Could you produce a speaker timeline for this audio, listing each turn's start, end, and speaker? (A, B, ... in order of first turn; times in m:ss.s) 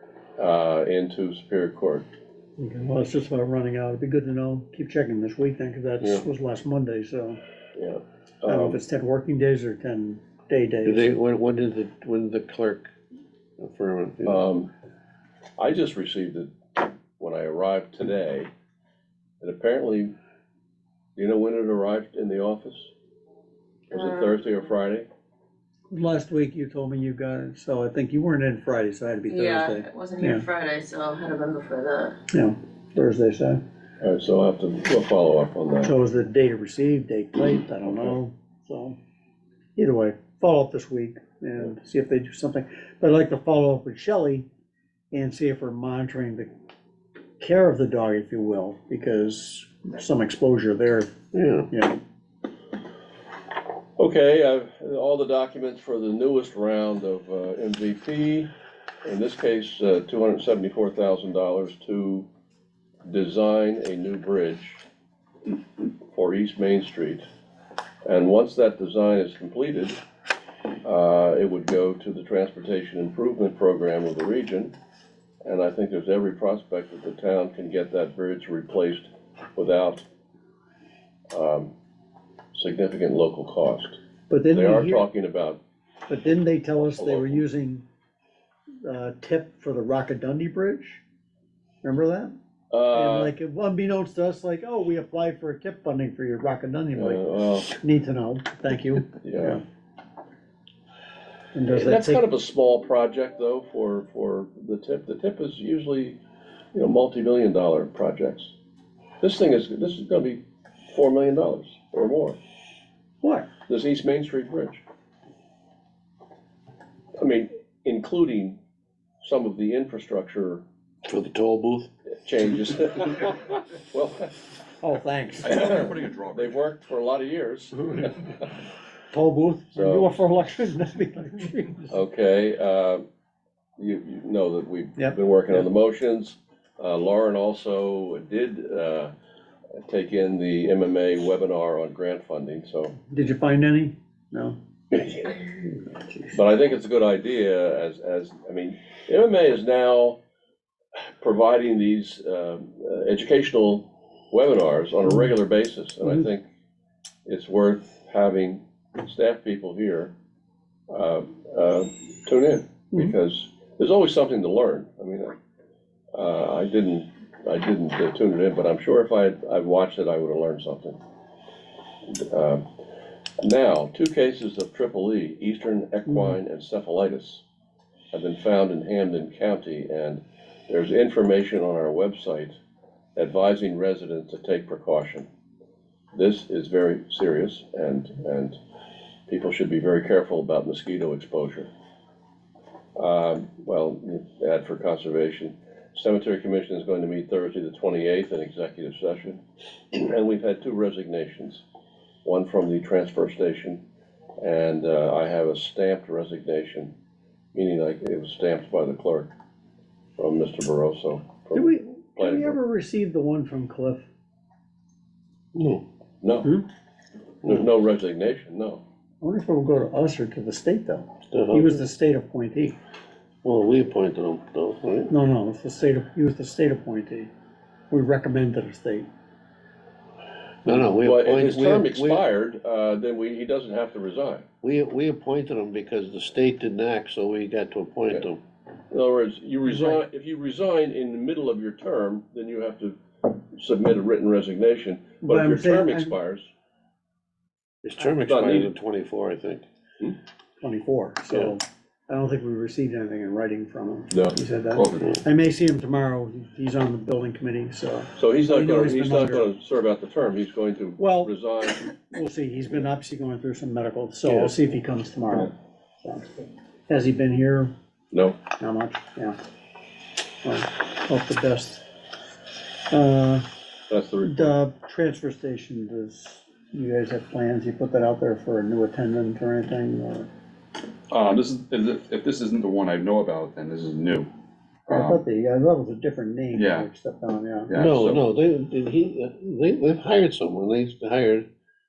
0:00.4-0:02.1 A
0:02.6-0:07.4 B
0:07.8-0:08.8 A
0:08.5-0:11.2 B
0:10.8-0:12.9 C
0:13.6-0:14.4 C
0:14.2-0:14.7 A
0:15.6-0:18.5 A
0:19.4-0:20.1 A
0:21.2-0:22.9 A
0:23.9-0:24.4 D
0:23.9-0:25.1 A
0:25.9-0:30.4 B
0:29.3-0:32.2 D
0:32.3-0:33.6 B
0:34.0-0:35.9 A
0:35.8-0:39.0 B
0:37.8-0:38.2 A
0:39.8-0:44.5 B
0:45.1-0:46.5 B
0:47.4-0:51.1 B
0:51.3-0:51.7 C
0:51.7-0:52.0 B
0:54.0-0:58.5 A
0:59.0-1:02.3 A
1:03.0-1:04.8 A
1:06.1-1:07.2 A
1:08.0-1:10.0 A
1:10.8-1:14.7 A
1:15.4-1:20.1 A
1:21.3-1:21.7 A
1:22.5-1:24.0 A
1:24.3-1:25.1 B
1:24.5-1:25.6 A
1:26.1-1:27.8 B
1:26.8-1:27.4 A
1:28.8-1:31.0 B
1:31.8-1:32.4 B
1:32.7-1:33.3 A
1:32.9-1:39.6 B
1:37.0-1:37.7 A
1:39.2-1:39.6 A
1:41.5-1:42.3 B
1:41.7-1:46.2 A
1:46.7-1:48.5 A
1:49.2-1:52.4 A
1:53.2-1:53.5 B
1:53.7-1:54.8 A
1:57.2-1:58.6 A
1:59.2-2:00.6 A
2:01.0-2:01.9 C
2:02.2-2:03.4 A
2:03.9-2:04.4 A
2:04.8-2:05.7 B
2:05.4-2:06.6 E
2:05.4-2:08.3 A
2:09.1-2:12.0 B
2:09.8-2:10.2 A
2:11.9-2:13.0 A
2:13.8-2:19.1 A
2:15.0-2:15.6 B
2:19.8-2:23.0 A
2:23.1-2:24.6 B
2:24.9-2:25.4 A
2:26.3-2:30.2 A
2:31.2-2:36.4 A
2:37.2-2:40.1 A
2:40.9-2:45.4 A
2:46.1-2:51.0 A
2:52.1-2:52.7 A
2:53.4-2:57.4 A
2:56.1-2:56.4 B
2:58.1-3:02.6 A
3:03.2-3:05.3 A
3:06.1-3:08.6 A
3:09.3-3:11.7 A
3:13.0-3:19.4 A
3:19.9-3:21.6 A
3:22.2-3:23.8 A
3:24.4-3:26.9 A
3:27.5-3:29.3 A
3:30.2-3:32.6 A
3:31.5-3:34.0 B
3:35.6-3:35.8 C
3:36.2-3:36.5 A
3:37.4-3:38.8 A
3:39.2-3:42.8 B
3:41.3-3:41.8 C
3:43.4-3:45.1 C
3:45.1-3:47.3 B
3:47.9-3:49.1 B
3:50.6-3:52.2 C
3:51.0-3:54.5 A
3:54.6-3:58.4 C
3:58.9-4:06.5 A
4:05.2-4:06.2 B
4:07.8-4:09.6 C
4:08.2-4:08.7 A
4:10.6-4:19.5 B
4:14.7-4:15.1 E
4:18.2-4:21.9 A
4:21.0-4:21.3 B
4:22.1-4:27.7 B
4:24.3-4:24.6 A
4:28.1-4:28.4 A
4:28.5-4:29.4 B
4:30.4-4:31.9 B
4:32.9-4:33.5 B
4:33.9-4:34.6 A
4:34.2-4:40.3 B
4:41.1-4:44.3 E
4:44.9-4:45.2 E
4:44.9-4:47.8 B
4:46.5-4:46.9 E
4:47.7-4:48.3 E
4:47.8-4:51.5 C